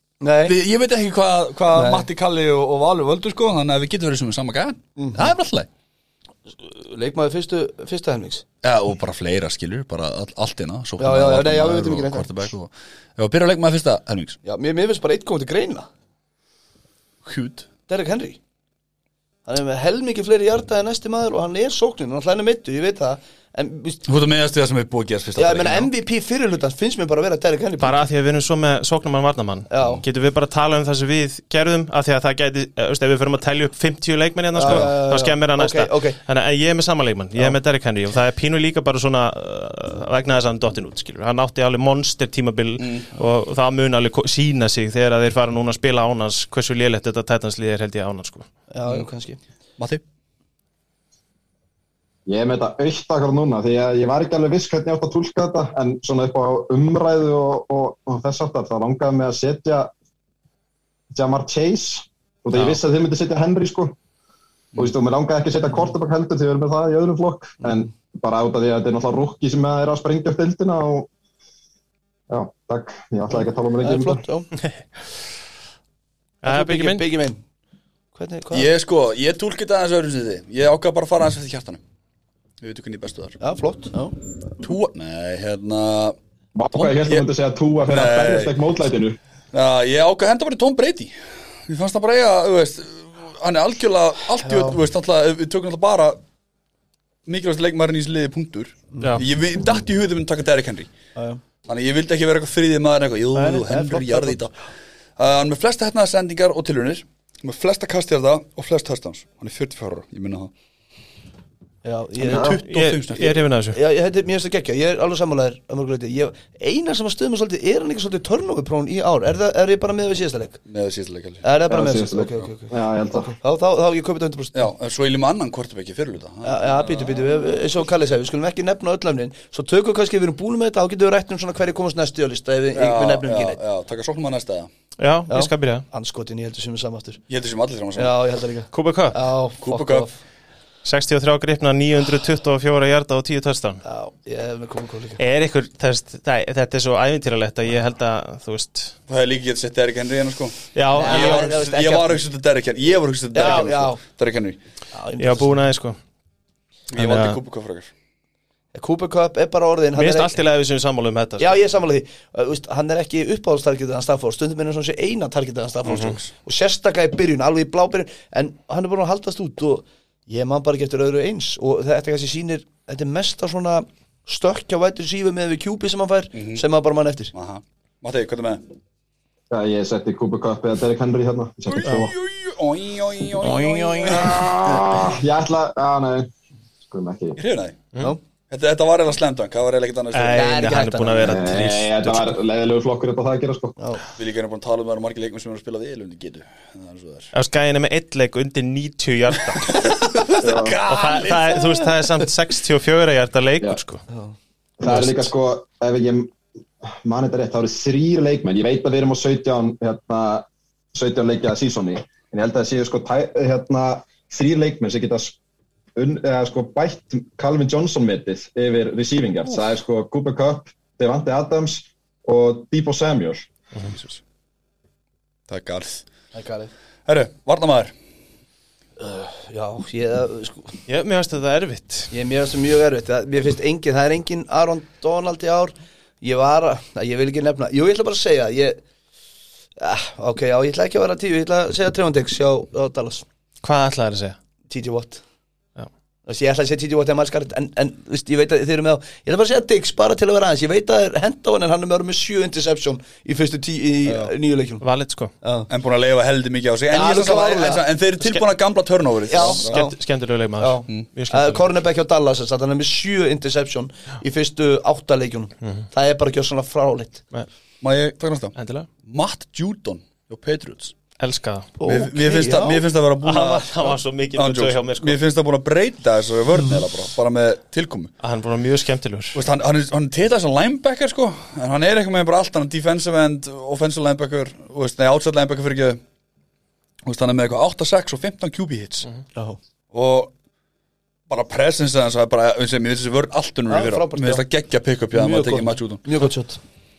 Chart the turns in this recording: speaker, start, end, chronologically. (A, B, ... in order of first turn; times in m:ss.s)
0:00.2-0:00.6 A
0:00.4-0:05.7 B
0:01.7-0:02.0 A
0:05.0-0:05.2 A
0:06.6-0:08.4 A
0:08.6-0:14.4 B
0:11.0-0:12.3 A
0:14.4-0:15.9 A
0:17.2-0:17.7 B
0:17.9-0:18.4 A
0:19.4-0:24.0 A
0:24.0-0:25.9 B
0:25.4-0:28.0 A
0:27.8-0:48.4 C
0:29.7-0:30.0 A
0:34.5-0:36.2 A
0:42.8-0:43.0 B
0:48.7-0:49.4 A
0:49.8-0:50.0 B
0:52.3-0:59.9 D
1:01.1-1:03.9 D
1:02.5-1:02.8 C
1:04.8-1:11.1 D
1:12.3-1:14.2 D
1:13.8-1:14.5 A
1:16.4-1:17.0 C
1:16.4-1:17.4 A
1:18.1-1:18.7 A
1:18.5-1:21.8 B
1:22.6-1:23.4 B
1:23.4-1:24.2 A
1:24.6-1:26.2 B
1:26.5-1:29.2 D
1:26.7-1:27.3 B
1:27.9-1:28.6 B
1:29.5-1:36.2 B
1:34.5-1:34.8 A
1:37.2-1:40.9 B
1:41.1-1:41.4 A
1:41.6-1:44.5 B
1:43.3-1:44.4 A
1:45.2-1:50.5 B
1:51.8-1:52.6 A
1:52.2-1:53.4 B
1:52.4-1:53.8 C
1:53.7-2:00.6 A
2:00.7-2:01.4 B
2:01.4-2:04.7 A
2:01.7-2:03.3 D
2:04.5-2:07.3 B
2:06.4-2:13.6 A
2:12.7-2:14.7 B
2:15.0-2:15.8 C
2:15.3-2:17.2 A
2:17.3-2:18.2 B
2:18.0-2:20.2 A
2:18.7-2:19.2 C
2:19.6-2:20.1 B
2:20.8-2:23.8 C
2:23.8-2:25.2 A
2:25.2-2:29.0 C
2:29.1-2:34.6 B
2:30.7-2:31.6 C
2:30.9-2:32.2 A
2:33.3-2:34.0 A
2:33.4-2:33.7 C
2:34.9-2:35.6 A
2:35.2-2:36.0 C
2:36.9-2:37.9 B
2:36.9-2:37.4 C
2:38.7-2:40.4 A
2:40.0-2:41.6 C
2:41.4-2:57.3 A
2:45.8-2:46.3 B
2:45.9-2:46.2 C
2:56.3-2:56.6 B
2:57.3-2:58.6 B
2:59.5-3:02.1 D
3:01.6-3:05.0 B
3:03.4-3:04.5 A
3:04.1-3:06.3 D
3:06.9-3:07.4 D
3:07.4-3:07.9 B
3:08.5-3:10.6 B
3:10.1-3:12.2 C
3:10.3-3:11.6 A
3:11.2-3:13.8 D
3:13.8-3:14.0 A
3:14.2-3:17.3 B
3:17.3-3:20.0 C
3:19.5-3:21.8 B
3:20.4-3:20.8 D
3:20.8-3:24.0 C
3:24.1-3:24.3 A
3:24.8-3:26.3 D
3:24.9-3:25.2 C
3:26.9-3:35.4 D
3:36.0-3:43.5 D
3:45.5-3:46.0 B
3:46.3-3:46.7 A
3:47.0-3:47.9 B
3:49.0-3:50.8 A
3:50.9-3:52.1 C
3:52.1-3:58.8 A
3:59.8-4:03.2 A
4:03.6-4:04.4 C
4:04.7-4:05.2 A
4:06.3-4:14.8 A
4:14.0-4:14.3 B
4:14.8-4:15.3 C
4:15.4-4:15.7 A
4:15.7-4:19.8 B
4:16.9-4:17.8 A
4:19.3-4:20.0 A
4:19.7-4:21.7 C
4:20.6-4:27.2 A
4:27.8-4:30.9 B
4:28.5-4:28.9 C
4:31.2-4:31.7 C
4:31.8-4:32.8 A
4:31.8-4:38.1 B
4:33.2-4:35.2 C
4:38.2-4:39.4 C
4:39.3-4:46.0 B
4:47.0-4:49.1 B
4:49.9-4:50.3 B
4:51.3-4:56.0 B
4:53.7-4:54.4 A
4:55.1-4:56.6 A